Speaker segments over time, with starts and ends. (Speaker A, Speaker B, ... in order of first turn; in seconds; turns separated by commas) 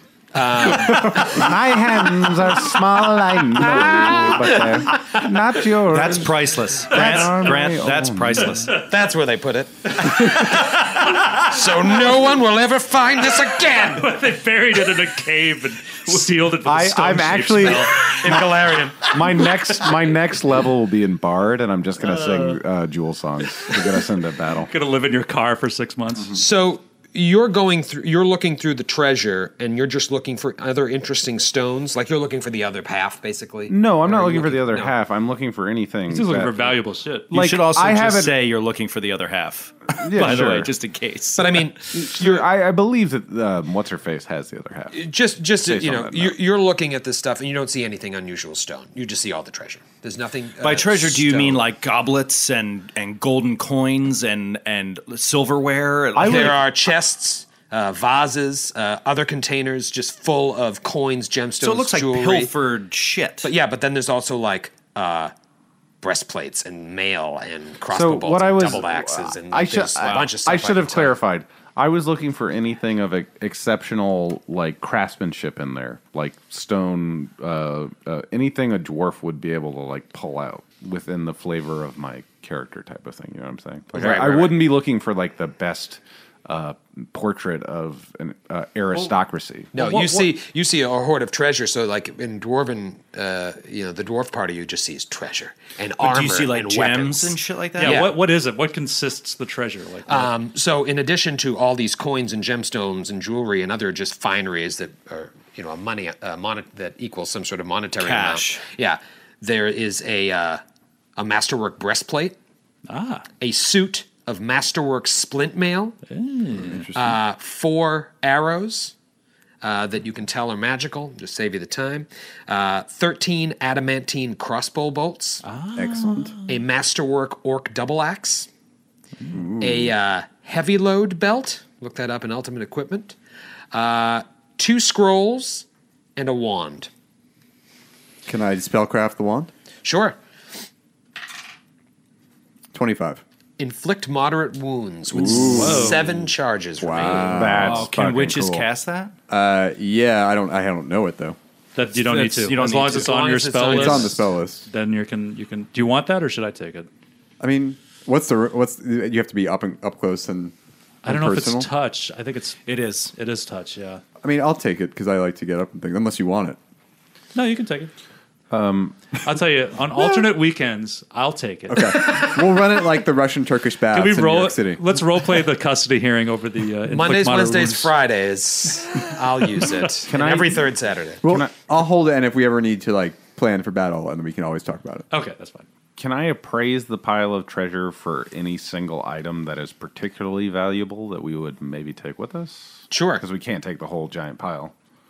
Speaker A: 0.3-1.5, Speaker B: 0.8-8.7, Speaker A: 3.6-5.1, Speaker C: 5.9-8.7, Speaker D: 8.5-8.8, Speaker A: 8.7-14.1, Speaker D: 10.0-12.2, Speaker D: 13.4-18.4, Speaker B: 16.6-18.5, Speaker A: 17.9-19.2, Speaker B: 19.0-24.7, Speaker D: 24.7-26.4, Speaker A: 26.3-34.9, Speaker B: 33.7-36.8, Speaker D: 36.1-37.3, Speaker B: 37.3-38.4, Speaker C: 37.3-41.6, Speaker B: 39.9-40.7, Speaker A: 41.4-42.5, Speaker B: 41.9-45.0, Speaker A: 44.9-51.6, Speaker B: 45.6-46.3, Speaker C: 50.6-56.6, Speaker A: 56.2-62.5, Speaker B: 56.2-56.5, Speaker C: 61.6-63.5, Speaker A: 63.4-65.3, Speaker A: 66.0-71.2, Speaker B: 67.9-89.8, Speaker A: 83.9-84.7, Speaker A: 89.7-98.2, Speaker D: 89.8-90.2, Speaker C: 96.0-98.0, Speaker D: 97.8-100.3, Speaker A: 100.1-110.6, Speaker C: 108.0-108.6, Speaker A: 111.2-112.3, Speaker D: 112.9-113.3, Speaker A: 113.4-116.0, Speaker D: 116.1-116.9, Speaker E: 116.5-117.2, Speaker A: 116.9-118.9, Speaker A: 119.6-125.4, Speaker D: 125.4-126.4, Speaker E: 125.8-126.3, Speaker A: 126.5-128.5, Speaker E: 129.2-129.9, Speaker A: 129.6-133.2, Speaker A: 133.7-136.9, Speaker E: 138.2-139.5, Speaker A: 139.8-140.2, Speaker E: 142.7-143.2, Speaker A: 143.6-147.5, Speaker E: 145.1-146.0, Speaker D: 145.3-146.1, Speaker E: 146.8-147.9, Speaker B: 147.1-148.7, Speaker C: 147.6-149.1, Speaker E: 149.3-151.4, Speaker D: 151.7-156.9, Speaker C: 151.9-153.2, Speaker A: 152.8-154.2, Speaker E: 153.6-154.6, Speaker E: 157.4-160.5, Speaker D: 161.0-164.0, Speaker E: 161.0-161.7, Speaker C: 162.7-163.1, Speaker E: 164.2-166.6, Speaker D: 167.3-167.9, Speaker B: 168.5-169.1, Speaker D: 169.2-172.4, Speaker E: 171.7-175.0, Speaker D: 173.9-177.9, Speaker A: 176.9-181.2, Speaker B: 180.0-180.7, Speaker B: 181.2-181.5, Speaker E: 181.2-185.1, Speaker D: 185.1-185.7, Speaker B: 186.0-194.7, Speaker A: 192.9-193.2